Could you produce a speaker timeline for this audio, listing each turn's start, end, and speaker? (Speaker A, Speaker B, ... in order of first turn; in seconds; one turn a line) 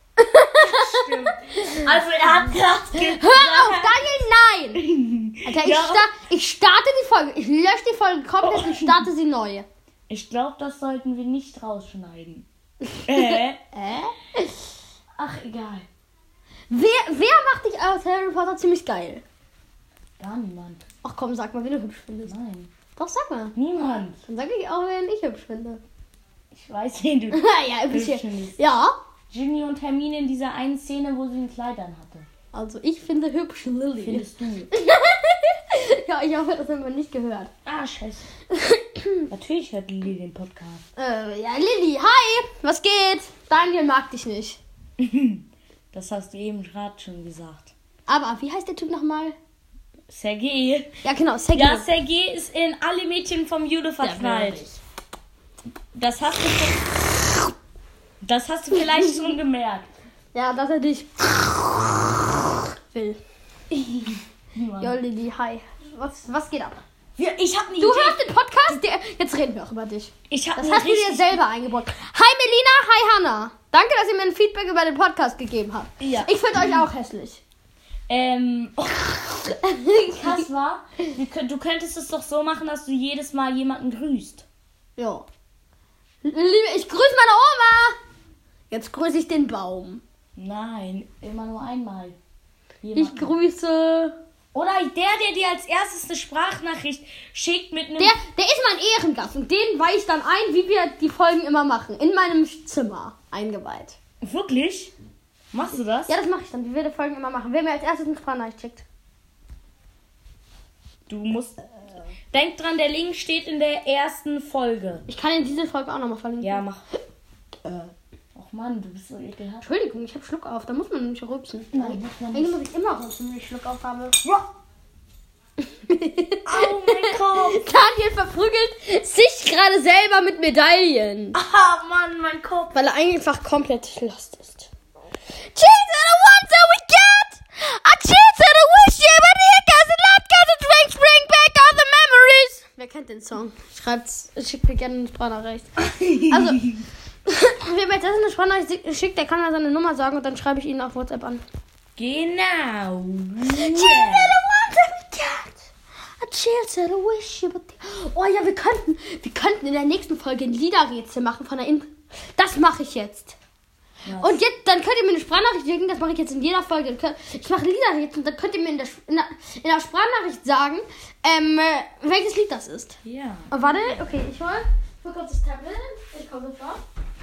Speaker A: 0.2-1.9
Speaker B: 0.6-3.9
Speaker A: 3.0-4.8
Speaker B: 4.8-6.1
Speaker A: 5.4-9.7
Speaker B: 8.4-9.1
Speaker B: 10.1-12.4
Speaker A: 12.9-14.5
Speaker B: 13.0-13.6
Speaker B: 15.2-15.8
Speaker A: 16.7-19.2
Speaker B: 20.2-20.9
Speaker A: 21.0-22.3
Speaker B: 22.2-22.7
Speaker A: 22.9-23.6
Speaker B: 23.6-24.2
Speaker A: 24.2-25.8
Speaker B: 26.5-28.6
Speaker A: 27.3-28.9
Speaker B: 29.3-32.3
Speaker A: 32.5-37.5
Speaker B: 34.0-34.7
Speaker B: 37.6-38.2
Speaker A: 38.5-39.3
Speaker B: 39.3-40.8
Speaker A: 41.0-44.6
Speaker B: 45.0-47.7
Speaker A: 48.1-49.4
Speaker B: 50.1-50.9
Speaker A: 51.0-51.9
Speaker B: 51.5-54.6
Speaker A: 54.0-54.8
Speaker B: 55.9-56.9
Speaker B: 58.2-59.9
Speaker A: 60.3-63.2
Speaker B: 63.7-65.0
Speaker A: 64.8-66.8
Speaker B: 67.2-68.8
Speaker A: 67.8-77.4
Speaker B: 70.3-71.4
Speaker B: 76.0-76.8
Speaker B: 78.1-84.4
Speaker A: 79.8-80.4
Speaker A: 85.0-85.2
Speaker A: 86.2-88.0
Speaker A: 88.7-90.0
Speaker B: 90.4-92.2
Speaker B: 92.8-93.3
Speaker A: 92.9-94.2
Speaker B: 94.5-98.2
Speaker A: 98.0-104.0
Speaker B: 104.2-104.9
Speaker B: 105.5-106.1
Speaker A: 106.1-108.8
Speaker B: 111.1-111.7
Speaker B: 112.3-115.0
Speaker A: 115.1-116.6
Speaker B: 116.4-116.8
Speaker A: 117.6-117.9
Speaker B: 118.3-119.7
Speaker A: 119.6-124.2
Speaker B: 121.7-122.5
Speaker A: 125.6-131.4
Speaker B: 126.4-127.8
Speaker B: 131.3-132.8
Speaker A: 132.7-134.7
Speaker A: 135.4-146.7
Speaker B: 145.9-146.8
Speaker A: 147.2-151.4
Speaker B: 152.0-154.3
Speaker A: 153.5-155.7
Speaker A: 156.2-163.3
Speaker B: 164.0-164.4
Speaker A: 164.2-173.0
Speaker B: 173.0-174.0
Speaker A: 173.5-176.8